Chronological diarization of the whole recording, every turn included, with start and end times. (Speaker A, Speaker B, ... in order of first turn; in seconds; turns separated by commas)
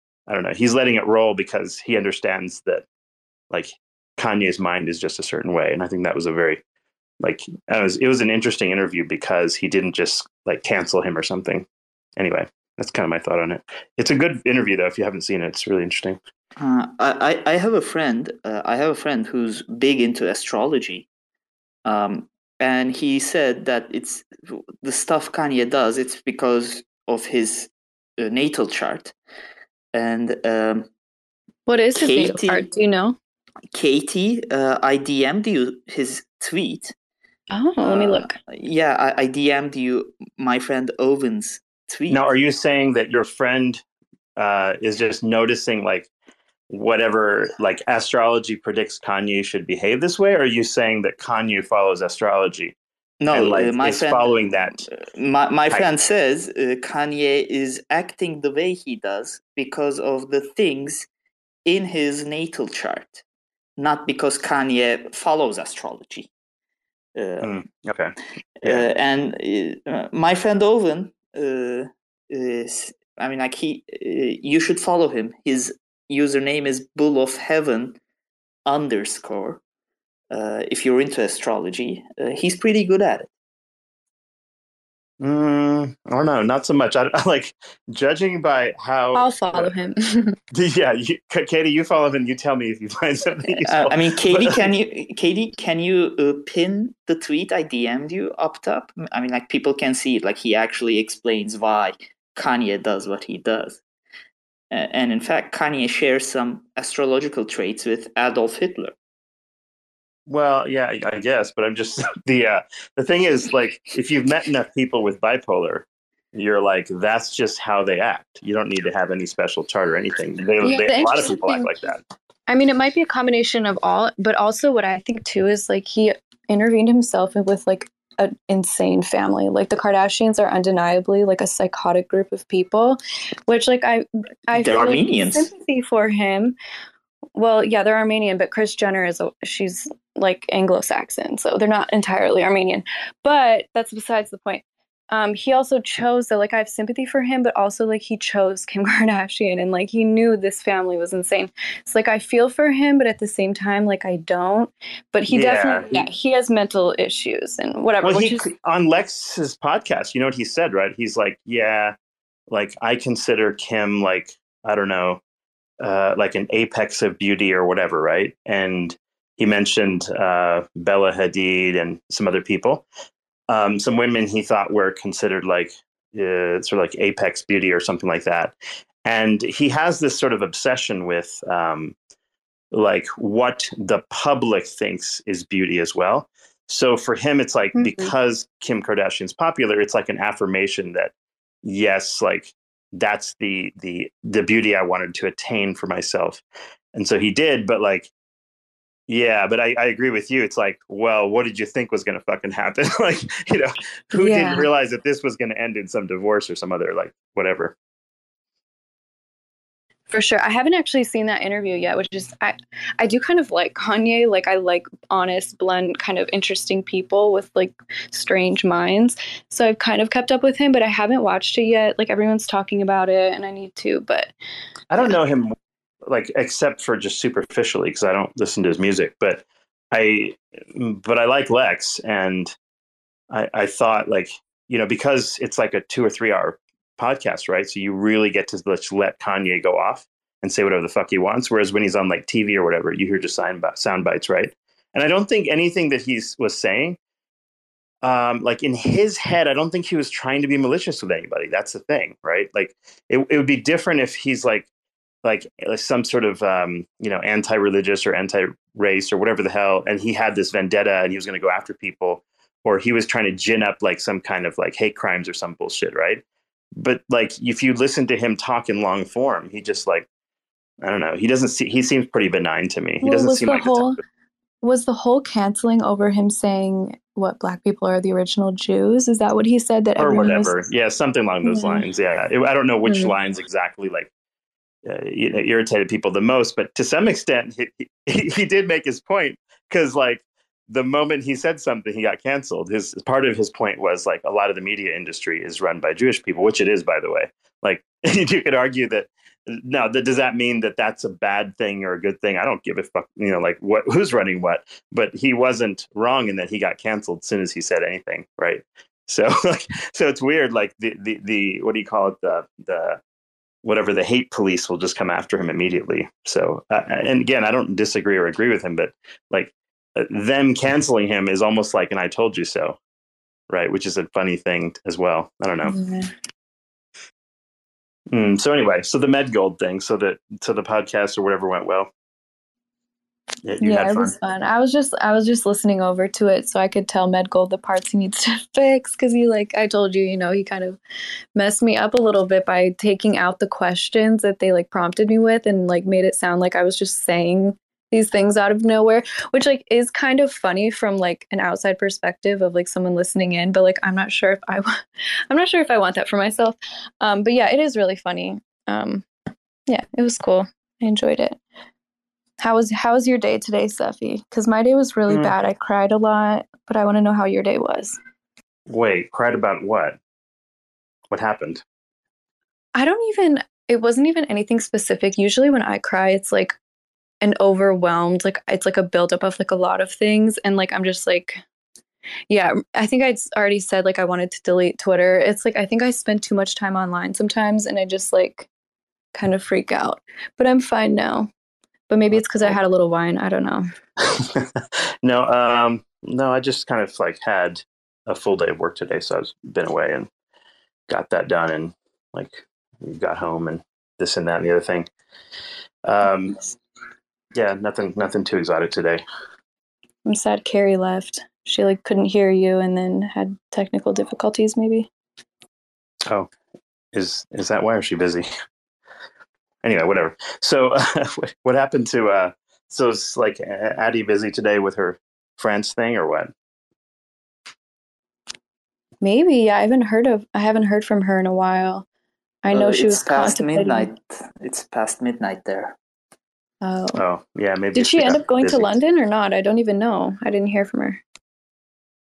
Speaker A: 0.3-2.8, Speaker A: 3.5-6.6, Speaker A: 7.2-11.7, Speaker A: 12.2-16.2, Speaker B: 16.6-21.1, Speaker B: 21.9-29.1, Speaker B: 29.9-30.9, Speaker C: 31.7-33.1, Speaker B: 32.0-32.7, Speaker B: 33.7-36.9, Speaker C: 37.5-38.3, Speaker B: 37.8-42.3, Speaker A: 42.1-43.8, Speaker A: 44.4-46.1, Speaker A: 46.7-52.8, Speaker B: 53.2-54.3, Speaker A: 53.3-54.9, Speaker B: 55.1-61.1, Speaker B: 61.6-63.2, Speaker B: 63.8-66.3, Speaker B: 67.2-67.6, Speaker A: 67.4-68.8, Speaker B: 68.6-78.0, Speaker B: 78.7-79.6, Speaker B: 80.3-83.3, Speaker A: 85.2-89.7, Speaker C: 89.1-90.3, Speaker A: 90.5-94.6, Speaker B: 93.6-103.8, Speaker B: 104.7-108.9, Speaker A: 110.3-122.0, Speaker C: 120.6-121.7, Speaker C: 122.5-136.5, Speaker B: 134.5-135.5, Speaker C: 137.3-158.4, Speaker A: 155.3-156.0, Speaker A: 158.0-161.9, Speaker A: 162.5-165.2, Speaker A: 165.8-172.8, Speaker A: 173.5-181.9, Speaker A: 182.7-196.4, Speaker C: 187.7-188.1, Speaker A: 196.9-198.1, Speaker A: 199.1-207.7, Speaker C: 204.1-204.7, Speaker C: 210.1-224.3, Speaker A: 224.9-232.5, Speaker A: 233.3-247.0, Speaker A: 248.0-254.7, Speaker A: 255.2-266.2, Speaker A: 266.8-270.1, Speaker A: 270.8-274.0, Speaker C: 273.0-274.0, Speaker C: 274.6-280.6, Speaker A: 280.0-284.1, Speaker C: 281.4-281.9, Speaker C: 282.8-283.1, Speaker A: 284.8-313.0, Speaker A: 313.6-322.8, Speaker A: 323.5-325.8, Speaker C: 325.6-326.1, Speaker A: 328.1-331.9, Speaker A: 333.4-334.1, Speaker C: 333.6-340.8, Speaker C: 341.4-359.1, Speaker C: 359.7-361.4, Speaker C: 362.4-368.0, Speaker A: 368.7-370.0, Speaker A: 371.1-371.6, Speaker C: 372.7-376.6, Speaker C: 377.2-381.4, Speaker C: 382.3-388.5, Speaker C: 389.1-391.3, Speaker C: 391.9-393.6, Speaker A: 392.1-392.6, Speaker A: 394.0-400.1, Speaker A: 400.9-404.9, Speaker A: 405.8-406.4, Speaker A: 407.3-409.0, Speaker C: 410.1-414.9, Speaker A: 416.9-418.3, Speaker A: 419.6-426.3, Speaker C: 429.0-431.9, Speaker C: 432.4-433.9, Speaker B: 432.5-435.8, Speaker C: 436.6-437.0, Speaker A: 436.9-438.7, Speaker C: 437.7-441.0